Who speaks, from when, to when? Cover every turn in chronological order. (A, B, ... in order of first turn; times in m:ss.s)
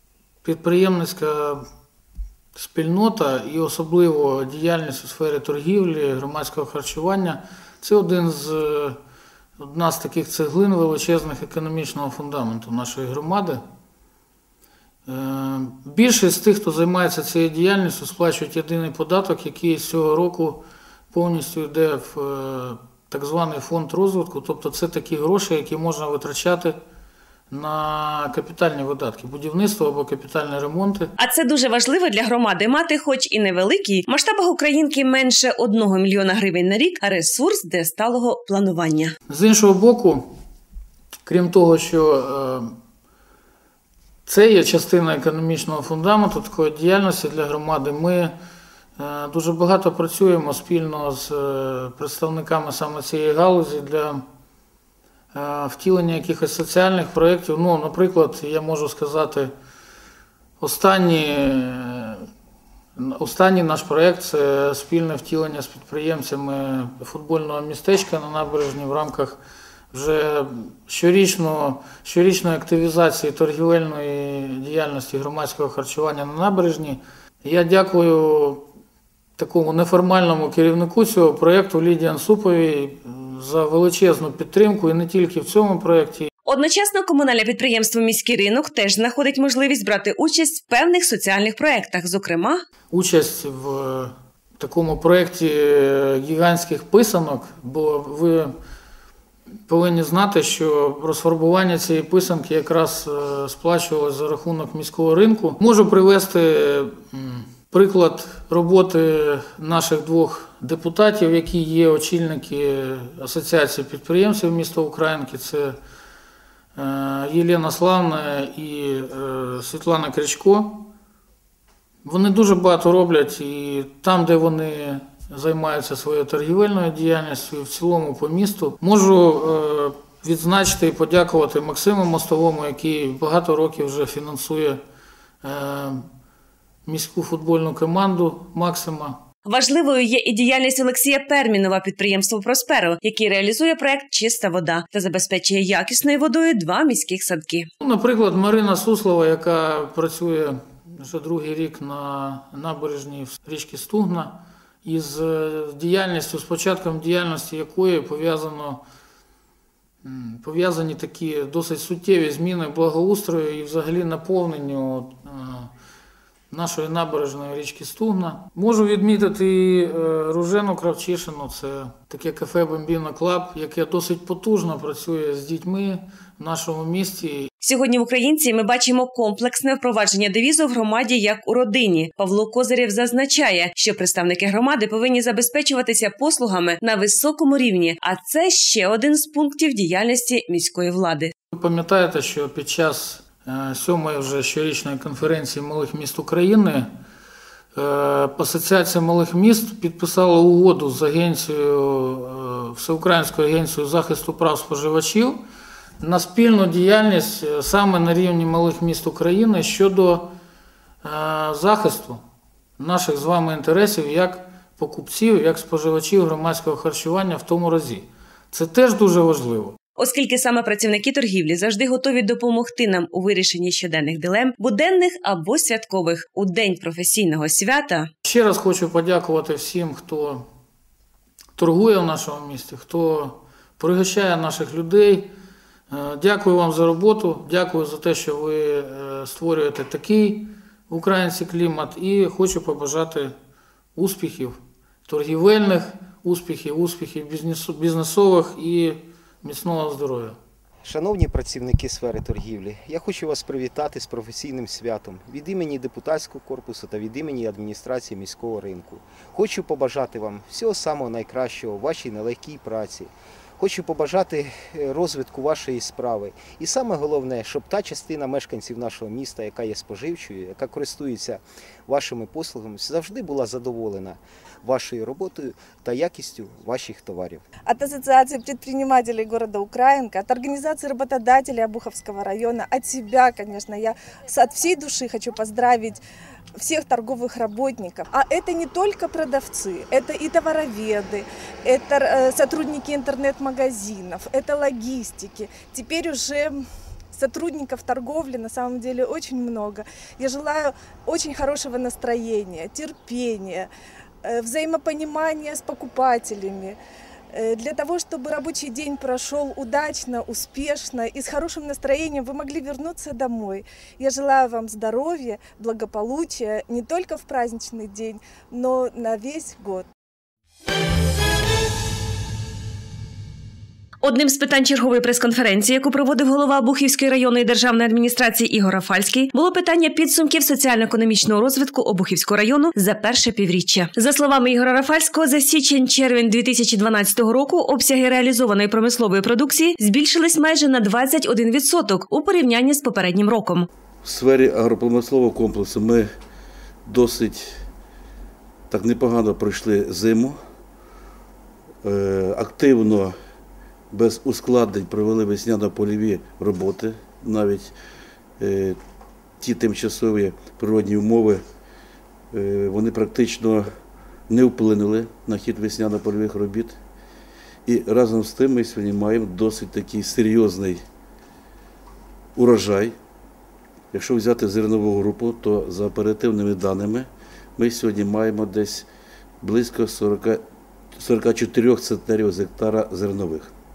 0:00.4-0:01.6 A
0:02.6-0:09.0 A
0:09.6-0:13.6 A
0:15.1-0:26.8 A
0:27.5-0:31.1 A
0:31.2-0:39.2 B
0:39.3-0:40.2 A
0:41.2-0:42.7 A
0:44.3-0:48.3 A
0:49.0-0:54.2 A
0:55.3-0:59.5 A
1:00.6-1:02.3 A
1:03.0-1:09.4 A
1:09.9-1:18.6 A
1:19.4-1:26.3 A
1:26.4-1:32.7 B
1:32.9-1:38.5 A
1:39.7-1:55.8 A
1:56.8-2:00.9 A
2:02.0-2:14.8 A
2:15.4-2:16.0 A
2:16.9-2:19.2 A
2:19.5-2:27.7 B
2:27.8-2:38.8 A
2:40.0-2:45.7 A
2:46.5-2:57.5 A
2:57.6-3:11.3 B
3:11.5-3:16.9 A
3:17.8-3:25.4 A
3:26.0-3:30.3 A
3:31.0-3:32.2 A
3:32.8-3:39.8 A
3:40.0-3:48.1 B
3:48.2-3:50.5 A
3:51.6-3:55.3 A
3:55.9-4:03.3 A
4:04.0-4:10.4 A
4:10.8-4:37.4 C
4:37.7-4:46.0 D
4:46.6-5:03.7 D
5:04.2-5:06.8 D
5:07.3-5:19.9 D
5:24.0-5:43.7 B
5:44.0-5:46.1 E
5:46.9-5:47.5 E
5:48.7-5:50.4 E
5:51.8-5:53.2 E
5:53.9-5:57.7 E
5:58.4-5:58.8 E
5:59.4-6:01.4 E
6:02.3-6:03.7 E
6:04.3-6:06.8 E
6:07.7-6:10.8 E
6:12.4-6:13.0 E
6:13.9-6:18.9 E
6:19.4-6:20.4 E
6:21.0-6:23.5 E